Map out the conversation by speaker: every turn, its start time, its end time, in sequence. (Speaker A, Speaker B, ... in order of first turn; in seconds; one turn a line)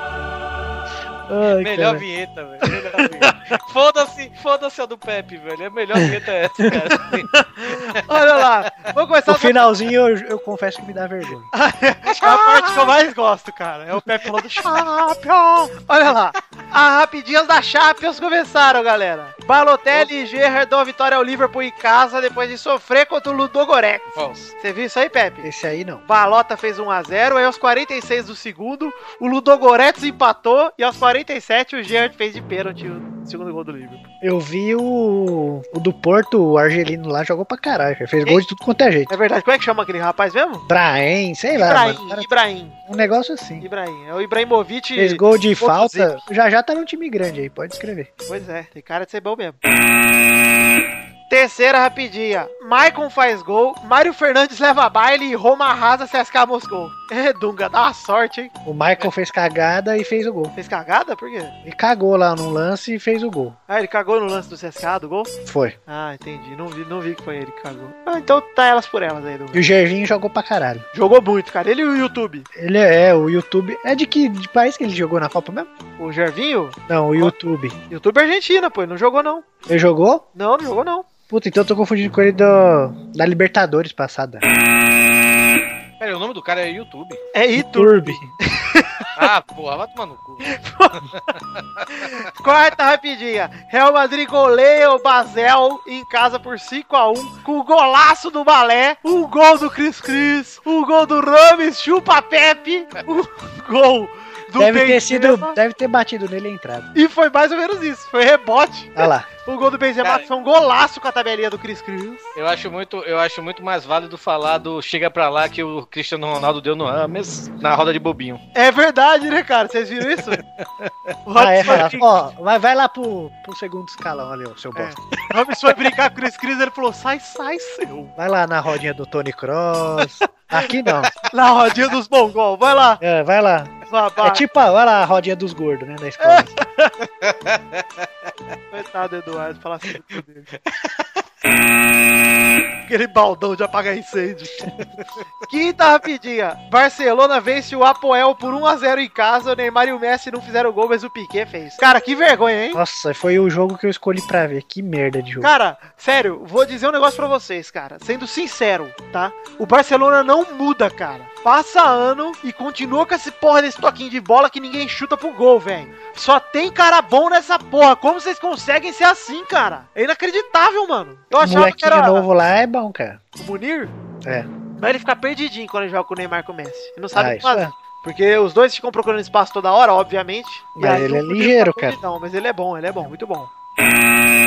Speaker A: 1.3-2.0
Speaker B: 1.6-8.4
Speaker C: 7.3-9.7
Speaker A: 9.3-11.5
Speaker C: 11.5-25.5
Speaker B: 12.2-12.6
Speaker B: 24.1-24.5
Speaker A: 25.4-26.0
Speaker C: 26.1-34.0
Speaker A: 34.2-39.1
Speaker C: 39.1-40.6
Speaker A: 40.7-42.3
Speaker C: 41.5-42.8
Speaker A: 42.9-43.6
Speaker C: 43.6-46.2
Speaker A: 45.0-48.1
Speaker C: 48.3-49.6
Speaker C: 51.3-58.5
Speaker A: 58.6-60.5
Speaker C: 60.5-61.5
Speaker A: 61.6-63.5
Speaker C: 63.7-65.3
Speaker A: 65.5-65.8
Speaker C: 65.9-69.7
Speaker A: 69.5-70.8
Speaker C: 70.9-72.5
Speaker A: 72.5-75.7
Speaker C: 76.0-77.3
Speaker A: 76.9-77.8
Speaker C: 77.9-79.5
Speaker A: 79.7-80.2
Speaker C: 80.3-81.1
Speaker A: 81.3-84.4
Speaker B: 86.0-87.2
Speaker C: 87.3-89.2
Speaker A: 87.5-88.2
Speaker B: 89.2-90.5
Speaker C: 90.4-91.0
Speaker B: 91.2-92.1
Speaker C: 91.9-105.5
Speaker A: 104.6-106.9
Speaker C: 106.9-112.2
Speaker A: 109.0-109.3
Speaker B: 112.3-118.4
Speaker C: 118.5-120.4
Speaker B: 120.6-120.9
Speaker C: 121.2-122.0
Speaker A: 121.3-125.0
Speaker C: 124.7-128.1
Speaker A: 128.2-131.1
Speaker C: 131.3-133.0
Speaker A: 133.0-136.5
Speaker C: 133.9-134.4
Speaker C: 136.2-136.9
Speaker B: 137.2-138.1
Speaker C: 138.7-140.5
Speaker C: 142.8-144.7
Speaker C: 145.4-152.8
Speaker A: 152.7-155.5
Speaker C: 155.4-172.3
Speaker A: 171.4-173.2
Speaker C: 173.4-173.9
Speaker C: 174.8-183.5
Speaker A: 177.1-177.7
Speaker A: 180.8-182.0